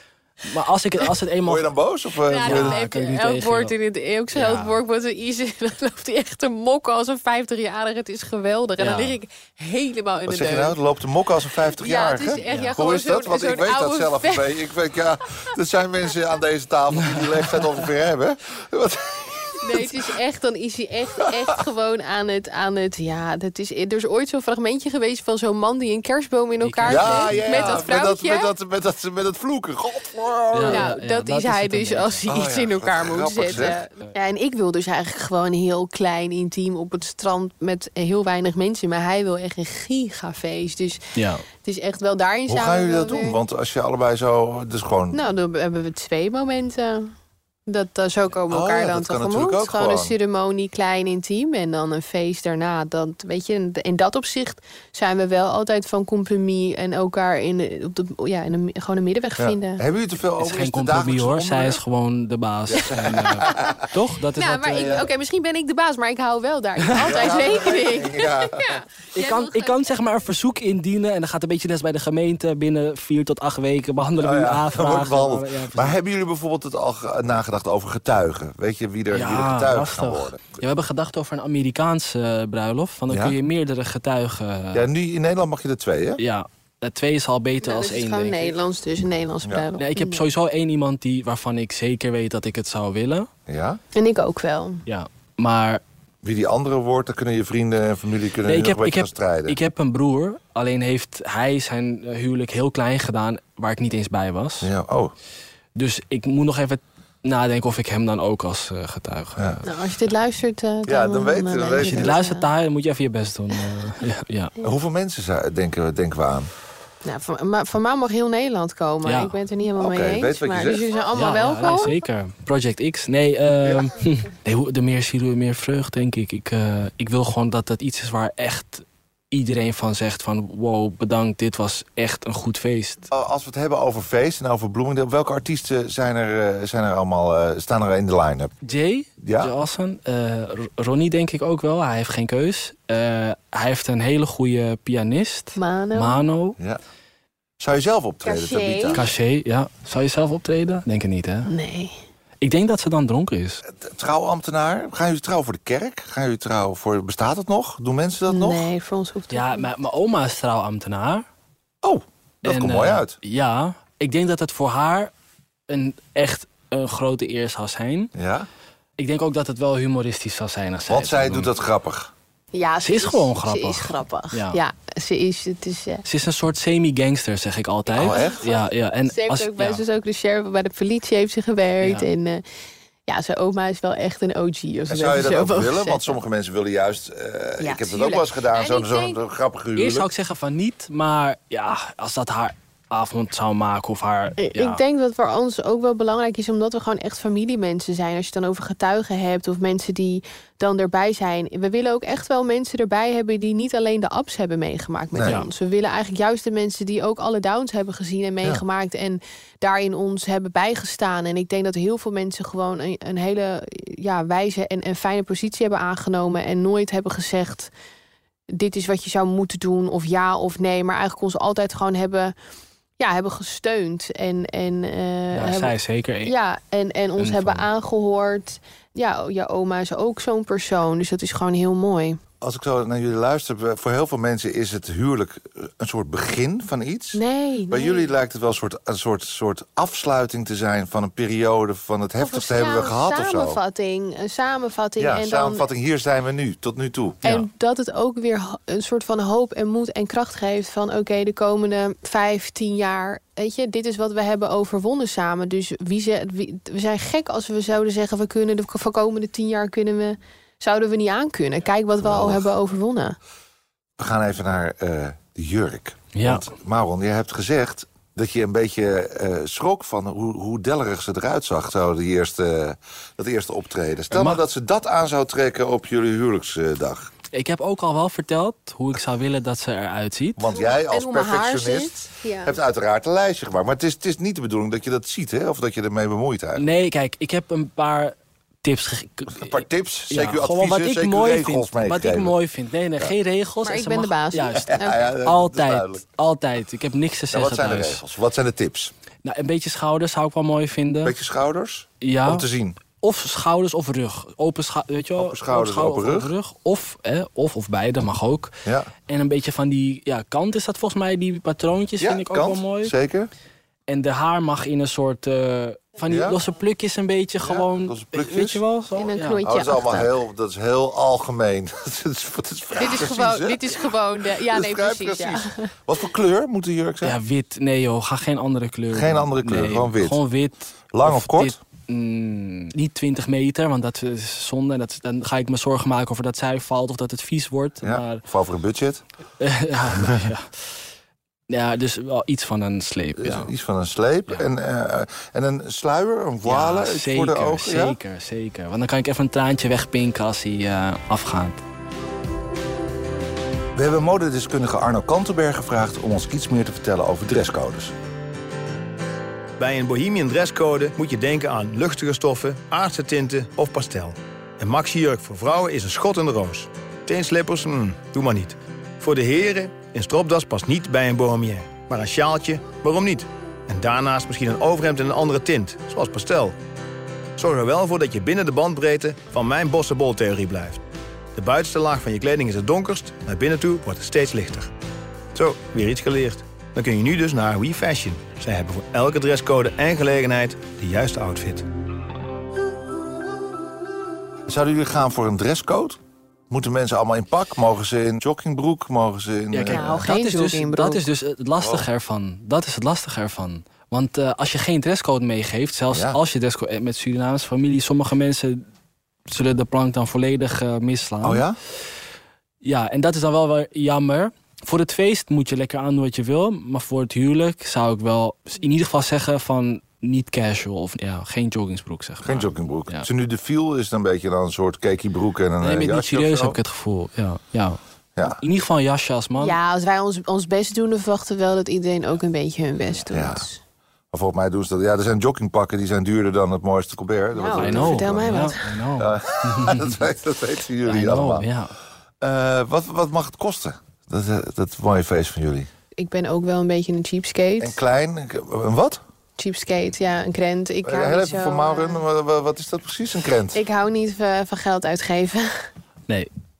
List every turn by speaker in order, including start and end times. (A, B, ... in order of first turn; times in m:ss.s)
0:00.4-0:01.7 A
0:01.4-0:02.8 B
0:02.3-0:10.8 C
0:02.4-0:03.7 A
0:04.3-0:04.8 A
0:08.8-0:09.1 A
0:10.3-0:20.0 B
0:11.7-0:14.6 C
0:12.4-0:12.7 A
0:17.0-0:17.7 A
0:19.6-0:28.5 C
0:26.6-0:27.8 A
0:26.8-0:30.9 B
0:30.5-0:32.2 A
0:30.7-0:43.4 C
0:32.3-0:33.8 B
0:41.2-0:41.4 A
0:42.5-0:45.2 B
0:45.1-0:47.1 C
0:47.7-0:59.8 C
0:48.5-0:50.1 B
0:59.4-1:01.8 B
1:00.4-1:05.0 A
1:02.7-1:03.7 B
1:03.4-1:03.8 C
1:04.3-1:09.8 C
1:04.8-1:05.0 B
1:07.0-1:08.8 B
1:09.1-1:16.0 A
1:14.2-1:20.6 B
1:19.1-1:24.8 A
1:23.1-1:23.4 B
1:24.7-1:26.2 B
1:26.2-1:28.5 A
1:27.6-1:30.2 C
1:29.8-1:33.3 A
1:33.5-1:33.8 B
1:33.9-1:34.8 C
1:34.9-1:35.8 A
1:36.2-1:39.6 B
1:38.4-1:44.7 A
1:44.6-1:45.1 B
1:45.7-1:49.6 A
1:49.4-1:49.6 B
1:49.6-1:52.5 C
1:50.8-1:52.1 B
1:51.8-1:54.5 A
1:54.6-1:56.5 B
1:57.0-2:02.0 C
1:59.0-1:59.4 A
1:59.8-2:00.8 B
2:01.1-2:13.1 A
2:13.1-2:18.5 B
2:18.6-2:26.6 A
2:19.2-2:19.5 B
2:25.6-2:26.2 C
2:27.6-2:29.1 B
2:28.2-2:29.0 C
2:28.9-2:31.5 A
2:31.4-2:32.0 C
2:32.4-2:33.6 A
2:33.6-2:38.7 B
2:38.3-2:39.6 C
2:39.3-2:41.2 A
2:41.8-2:43.2 B
2:42.4-2:45.1 A
2:45.7-2:48.1 A
2:48.1-2:48.5 B
2:49.0-2:51.5 A
2:50.9-2:52.1 B
2:52.5-2:56.0 C
2:52.8-2:54.6 A
2:56.0-2:59.8 A
2:57.9-2:58.4 B
2:58.0-3:02.4 C
3:01.8-3:02.1 A
3:03.1-3:06.2 C
3:04.9-3:10.1 B
3:07.6-3:09.2 C
3:09.8-3:14.8 A
3:14.4-3:37.7 C
3:25.1-3:25.4 B
3:38.5-3:42.3 C
3:43.0-3:52.2 C
3:45.3-3:46.3 A
3:47.2-3:47.6 A
3:52.4-4:03.6 B
3:57.1-3:58.0 C
4:02.2-4:05.7 C
4:05.0-4:07.2 B
4:07.2-4:23.2 C
4:22.0-4:22.4 B
4:24.0-4:37.1 B
4:26.1-4:26.4 A
4:34.1-4:34.4 A
4:37.3-4:40.4 A
4:40.4-4:46.6 B
4:40.5-4:42.6 C
4:46.6-4:58.0 A
4:49.3-4:52.3 B
4:53.6-4:55.0 C
4:54.7-4:56.0 B
4:57.3-4:58.9 B
4:59.2-5:01.1 A
5:01.0-5:02.8 B
5:02.0-5:02.4 A
5:03.0-5:08.5 A
5:05.2-5:06.3 B
5:08.6-5:08.9 B
5:09.1-5:12.9 A
5:12.0-5:13.3 B
5:13.9-5:19.4 A
5:16.1-5:16.4 B
5:17.4-5:18.6 B
5:18.9-5:20.1 C
5:19.4-5:27.2 B
5:22.8-5:25.7 C
5:27.0-5:38.2 A
5:28.9-5:30.2 B
5:30.9-5:31.6 B
5:37.8-5:39.0 B
5:39.4-5:40.8 A
5:41.5-5:43.5 A
5:43.2-5:48.0 B
5:46.4-5:51.6 A
5:53.7-5:57.9 B
5:59.6-6:16.5 D
6:17.4-6:20.8 D
6:21.3-6:24.7 D
6:25.3-6:31.6 D
6:34.5-6:36.0 B
6:36.5-6:40.0 B
6:39.5-6:48.6 A
6:39.7-6:41.0 C
6:41.6-6:41.8 B
6:45.9-6:46.2 B
6:49.3-6:51.8 A
6:51.2-6:51.6 B
6:52.6-7:03.1 A
7:02.2-7:06.6 B
7:05.6-7:07.8 A
7:08.2-7:08.4 B
7:08.3-7:09.6 A
7:09.4-7:13.6 C
7:13.1-7:13.5 B
7:14.1-7:21.5 B
7:17.3-7:18.6 C
7:17.5-7:20.0 A
7:20.8-7:21.7 A
7:22.2-7:25.7 B
7:26.0-7:27.8 C
7:27.6-7:29.0 B
7:29.4-7:32.0 C
7:30.8-7:33.6 B
7:33.5-7:35.7 C